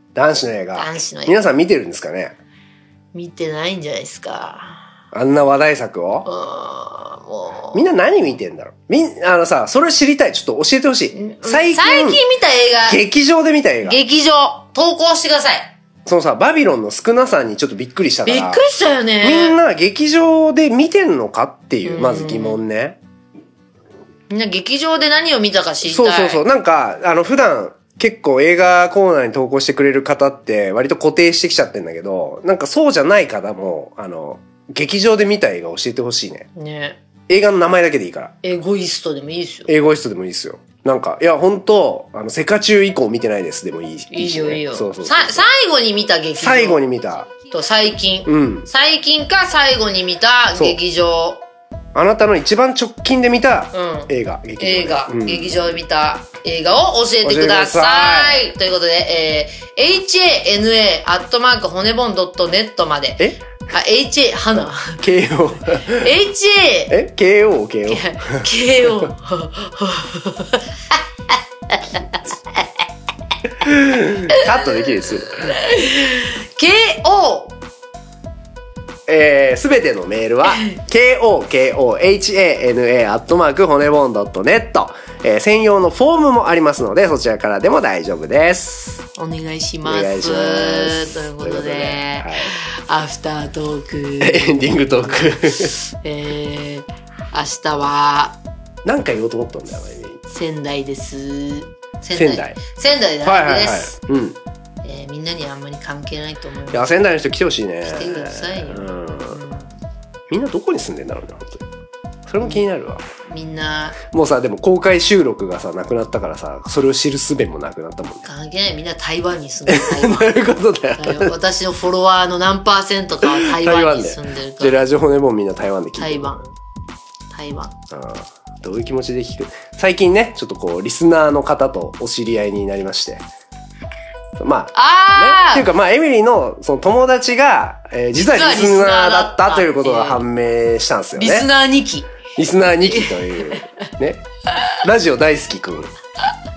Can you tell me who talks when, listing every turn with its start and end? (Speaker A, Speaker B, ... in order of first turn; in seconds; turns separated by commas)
Speaker A: 0.1-2.4, Speaker B: 0.8-1.4, Speaker B: 3.1-4.9, Speaker A: 5.1-6.3, Speaker B: 6.3-7.8, Speaker A: 7.7-12.2, Speaker B: 11.1-13.0, Speaker A: 12.8-14.0, Speaker B: 13.8-15.7, Speaker A: 16.1-18.6, Speaker B: 18.3-19.6, Speaker A: 19.2-23.0, Speaker B: 21.8-22.6, Speaker B: 24.3-26.4, Speaker A: 25.9-36.5, Speaker B: 36.5-37.0, Speaker A: 37.3-38.4, Speaker B: 38.4-39.7, Speaker A: 39.7-45.5, Speaker B: 44.1-46.8, Speaker A: 46.4-47.3, Speaker B: 47.5-51.4, Speaker A: 48.3-48.7, Speaker A: 50.5-50.8, Speaker A: 51.9-55.8, Speaker B: 53.7-65.0, Speaker A: 57.2-58.5, Speaker A: 64.6-66.1, Speaker B: 65.9-67.0, Speaker A: 66.9-68.5, Speaker B: 67.9-71.0, Speaker B: 71.7-72.2, Speaker A: 73.6-75.5, Speaker B: 74.3-77.6, Speaker A: 79.1-89.0, Speaker B: 80.5-80.8, Speaker B: 89.2-98.4, Speaker A: 89.8-92.5, Speaker A: 94.2-95.7, Speaker A: 98.8-100.2, Speaker B: 100.3-104.0, Speaker A: 102.2-102.6, Speaker A: 103.2-104.4, Speaker B: 104.8-106.9, Speaker A: 106.7-109.4, Speaker B: 107.8-109.7, Speaker A: 110.3-111.7, Speaker A: 112.3-113.0, Speaker B: 113.3-114.0, Speaker A: 114.0-118.3, Speaker B: 118.2-120.4, Speaker A: 119.7-121.3, Speaker B: 121.0-124.8, Speaker A: 123.2-126.4, Speaker B: 126.0-126.5, Speaker B: 127.3-127.8, Speaker A: 127.9-133.3, Speaker A: 134.4-141.5, Speaker B: 134.7-135.7, Speaker B: 138.2-140.2, Speaker B: 141.2-142.1, Speaker A: 142.4-144.2, Speaker B: 142.9-143.7, Speaker A: 144.8-145.9